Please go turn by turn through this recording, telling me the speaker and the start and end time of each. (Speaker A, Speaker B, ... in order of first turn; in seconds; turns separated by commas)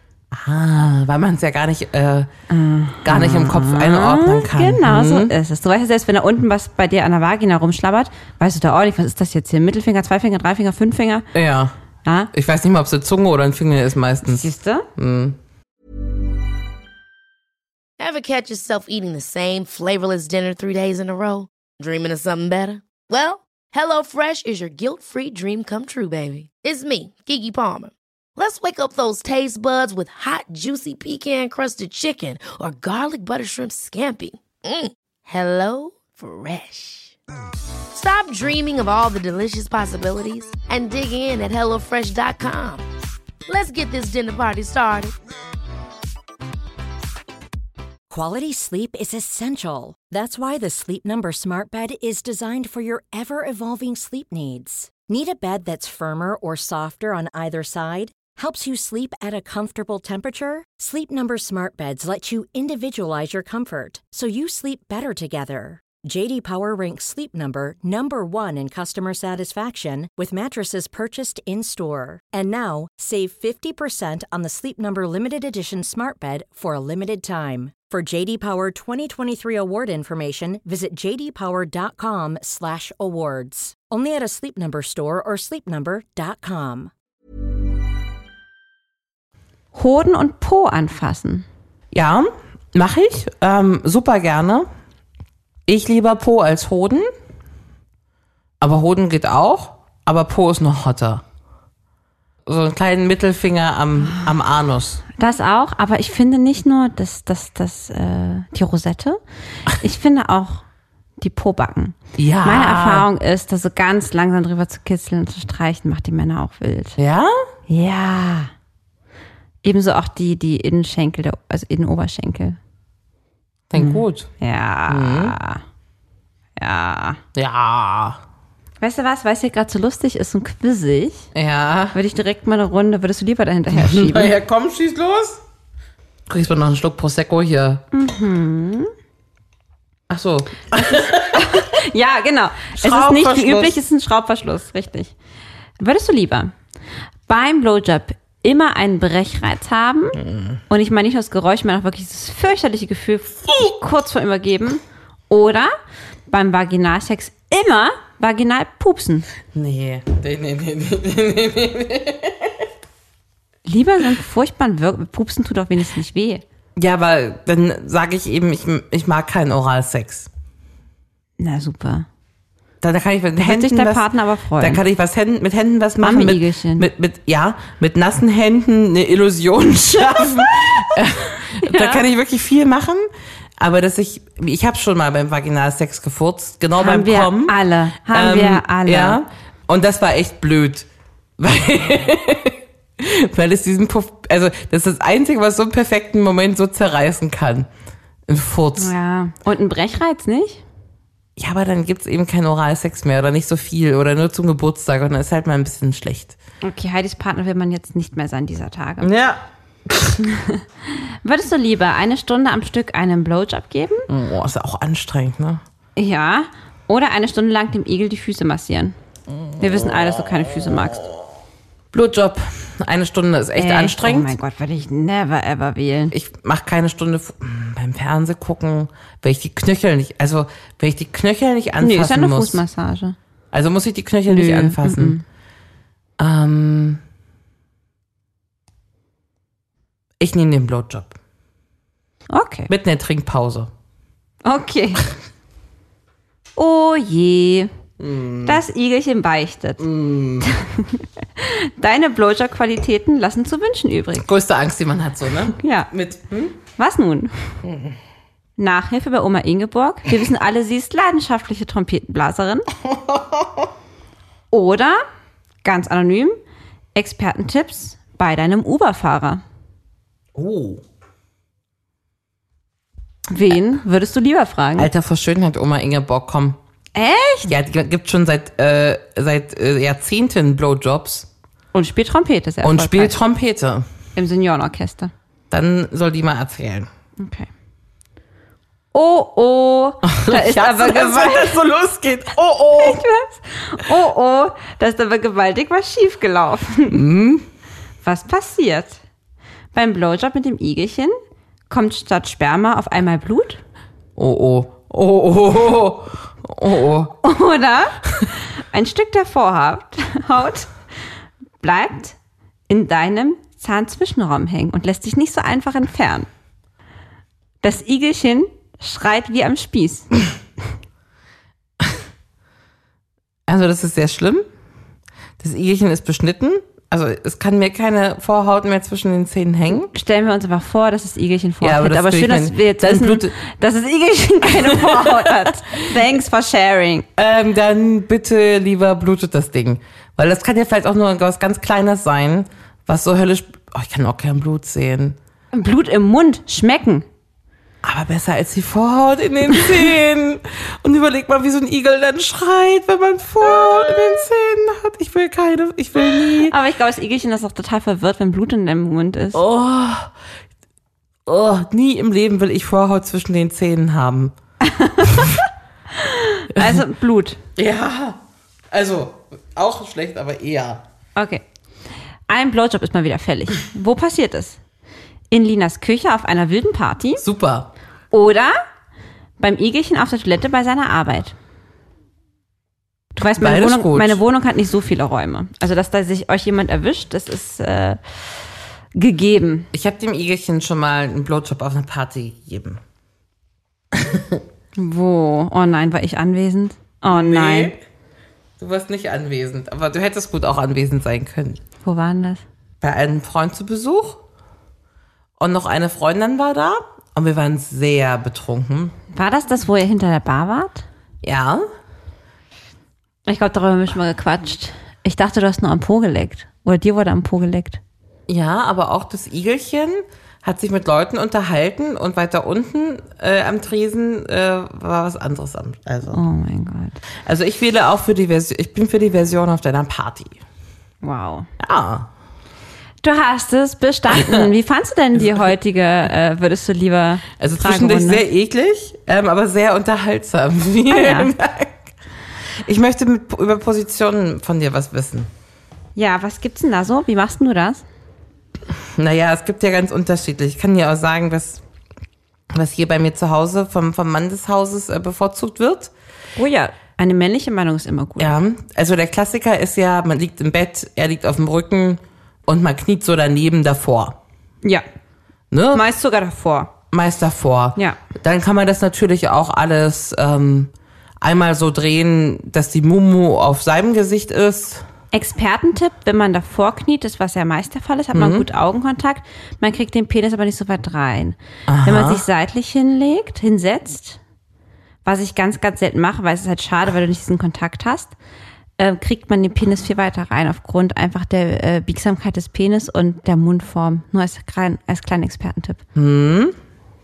Speaker A: 0.3-2.3, Speaker B: 2.5-11.3, Speaker A: 3.0-5.3, Speaker A: 11.3-11.7, Speaker B: 12.0-12.3, Speaker A: 12.3-15.4, Speaker B: 14.2-14.9, Speaker C: 18.0-37.1, Speaker C: 37.9-42.8, Speaker C: 43.5-45.1, Speaker D: 48.1-86.9, Speaker B: 89.7-91.4, Speaker A: 91.9-94.7, Speaker A: 95.7-97.1, Speaker A: 98.6-101.2, Speaker A: 102.5-105.0, Speaker B: 104.0-104.3, Speaker B: 105.2-110.6, Speaker B: 111.2-117.0, Speaker A: 112.2-113.1, Speaker A: 117.0-117.3, Speaker B: 117.7-118.5, Speaker B: 119.6-122.6, Speaker A: 123.7-124.3, Speaker B: 123.8-125.6, Speaker A: 124.9-125.4, Speaker B: 126.6-127.2, Speaker A: 127.3-128.2, Speaker B: 128.8-131.2, Speaker A: 131.3-131.9, Speaker B: 131.9-134.3, Speaker A: 133.7-135.4, Speaker A: 136.3-137.8, Speaker B: 137.9-138.9, Speaker A: 140.1-141.6, Speaker B: 141.2-145.1, Speaker A: 142.8-143.8, Speaker B: 145.8-146.5, Speaker B: 147.3-155.7, Speaker A: 150.2-150.6, Speaker B: 156.3-159.3, Speaker A: 159.5-162.6, Speaker B: 163.7-166.4, Speaker A: 166.8-170.3, Speaker B: 171.4-172.1, Speaker A: 172.8-190.9, Speaker B: 173.4-174.8, Speaker B: 176.0-176.9, Speaker B: 181.6-182.0, Speaker B: 186.8-189.2, Speaker A: 191.4-197.7, Speaker A: 198.3-198.9, Speaker B: 198.8-200.6, Speaker A: 201.4-206.3, Speaker B: 206.6-209.1, Speaker A: 209.0-210.2, Speaker B: 210.3-214.1, Speaker A: 214.1-215.6, Speaker B: 215.9-218.9, Speaker A: 219.6-220.1, Speaker B: 219.6-221.0, Speaker A: 221.9-224.3, Speaker B: 223.6-226.1, Speaker A: 226.1-232.6, Speaker B: 231.8-233.2, Speaker A: 233.5-235.2, Speaker B: 234.3-235.2, Speaker A: 236.2-237.0, Speaker A: 240.2-241.1, Speaker B: 242.3-242.7, Speaker A: 242.7-243.7, Speaker B: 244.4-245.1, Speaker B: 246.6-247.7, Speaker A: 248.0-248.6, Speaker B: 248.4-249.9, Speaker A: 249.8-250.5, Speaker B: 250.4-254.2, Speaker A: 254.1-256.6, Speaker B: 255.5-255.9, Speaker B: 256.8-257.5, Speaker A: 257.6-257.9, Speaker B: 258.6-262.7, Speaker A: 262.9-263.6, Speaker B: 264.5-265.0, Speaker B: 265.6-266.4, Speaker B: 266.9-269.4, Speaker A: 270.3-270.8, Speaker B: 273.3-274.9, Speaker A: 274.8-276.6, Speaker B: 276.9-277.5, Speaker A: 277.4-281.3, Speaker B: 281.7-283.2, Speaker A: 282.6-283.9, Speaker B: 284.1-285.1, Speaker A: 285.5-286.9, Speaker B: 287.2-287.5, Speaker B: 288.9-291.5, Speaker A: 290.0-293.0, Speaker B: 292.8-297.0, Speaker A: 296.9-297.4, Speaker B: 298.0-299.0, Speaker B: 299.7-301.1, Speaker B: 301.7-303.6, Speaker A: 304.1-307.1, Speaker B: 307.2-310.7, Speaker B: 311.6-312.1, Speaker B: 312.7-316.3, Speaker B: 317.6-320.1, Speaker A: 323.5-324.4, Speaker A: 325.4-329.9, Speaker B: 329.9-337.1, Speaker A: 331.6-333.3, Speaker A: 334.4-335.8, Speaker A: 337.2-345.2, Speaker B: 345.5-347.1, Speaker A: 347.8-356.5, Speaker B: 356.4-359.4, Speaker A: 359.3-360.1, Speaker A: 361.2-364.3, Speaker B: 364.6-365.3, Speaker B: 366.0-367.4, Speaker A: 367.6-368.2, Speaker A: 368.7-370.8, Speaker B: 371.1-371.4, Speaker B: 372.3-374.6, Speaker B: 375.3-377.2, Speaker A: 377.2-377.7, Speaker B: 378.1-378.6, Speaker B: 379.4-381.3, Speaker B: 383.1-388.0, Speaker A: 383.4-384.2, Speaker B: 388.9-389.7, Speaker A: 389.7-392.8, Speaker A: 393.9-394.4, Speaker B: 394.8-397.7, Speaker A: 397.1-397.8, Speaker A: 398.6-401.6, Speaker B: 401.8-402.4, Speaker A: 402.8-404.2, Speaker A: 405.4-408.9, Speaker B: 409.1-410.8, Speaker A: 411.2-411.6, Speaker B: 413.2-417.8, Speaker A: 418.3-426.2, Speaker B: 426.1-427.0, Speaker A: 427.2-430.4, Speaker B: 431.0-431.5, Speaker A: 431.6-432.1, Speaker B: 433.0-438.2, Speaker A: 434.1-434.5, Speaker A: 437.4-441.9, Speaker B: 440.9-441.3, Speaker A: 442.6-445.3, Speaker B: 445.9-447.8, Speaker A: 448.9-451.6, Speaker A: 452.5-455.9, Speaker B: 456.4-458.3, Speaker A: 458.2-464.2, Speaker A: 465.5-465.9, Speaker B: 465.7-466.7, Speaker A: 466.9-474.8, Speaker B: 475.1-484.2, Speaker A: 478.1-478.5, Speaker A: 481.7-482.2, Speaker B: 485.0-488.1, Speaker B: 488.8-495.8, Speaker A: 495.9-496.6